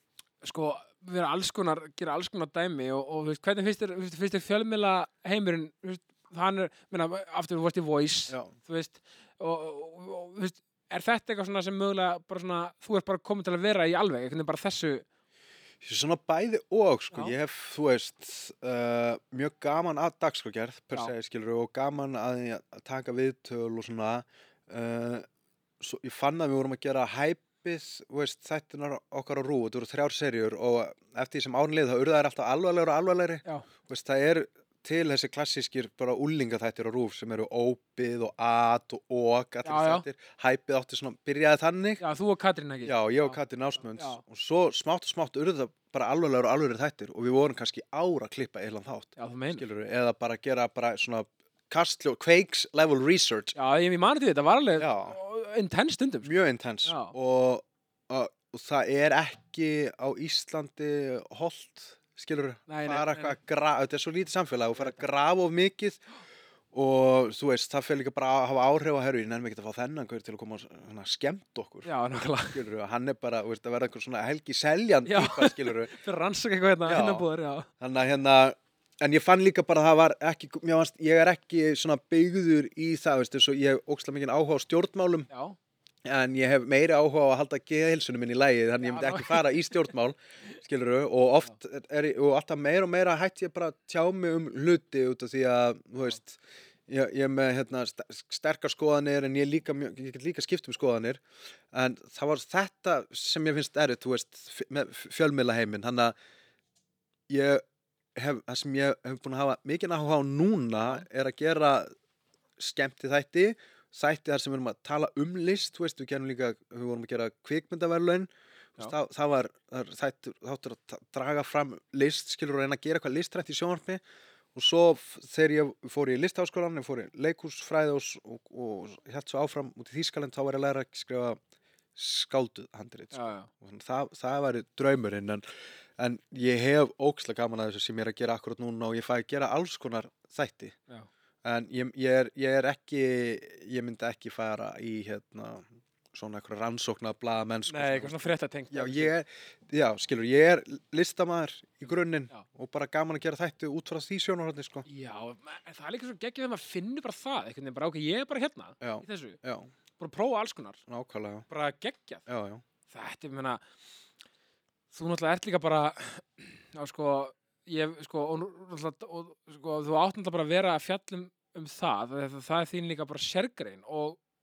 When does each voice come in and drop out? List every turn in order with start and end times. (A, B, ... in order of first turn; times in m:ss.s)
0:00.4-0:15.0 A
0:15.8-0:25.3 B
0:25.8-0:42.0 B
0:39.6-0:40.0 A
0:42.0-0:43.4 A
0:42.8-0:53.6 B
0:44.0-0:44.2 A
0:49.2-0:49.6 A
0:53.6-0:56.3 A
0:54.8-0:55.2 B
0:56.2-1:06.0 B
0:56.8-0:57.2 A
1:02.7-1:03.4 A
1:04.8-1:05.0 A
1:06.7-1:11.9 B
1:11.8-1:12.6 A
1:12.5-1:15.9 B
1:15.1-1:17.7 A
1:16.9-1:17.2 B
1:17.8-1:25.3 B
1:25.3-1:25.6 A
1:26.0-1:46.1 B
1:28.8-1:29.8 A
1:47.3-1:47.6 B
1:48.2-1:51.9 B
1:52.6-2:04.0 B
2:04.5-2:11.4 B
2:12.0-2:15.4 B
2:13.1-2:13.5 A
2:16.0-2:20.8 B
2:21.4-2:34.9 B
2:27.7-2:29.1 A
2:34.9-2:39.4 A
2:38.8-2:39.7 B
2:40.0-2:40.8 A
2:40.9-2:41.5 B
2:41.5-2:42.3 A
2:42.3-2:42.6 B
2:42.9-2:43.6 A
2:44.9-2:54.2 A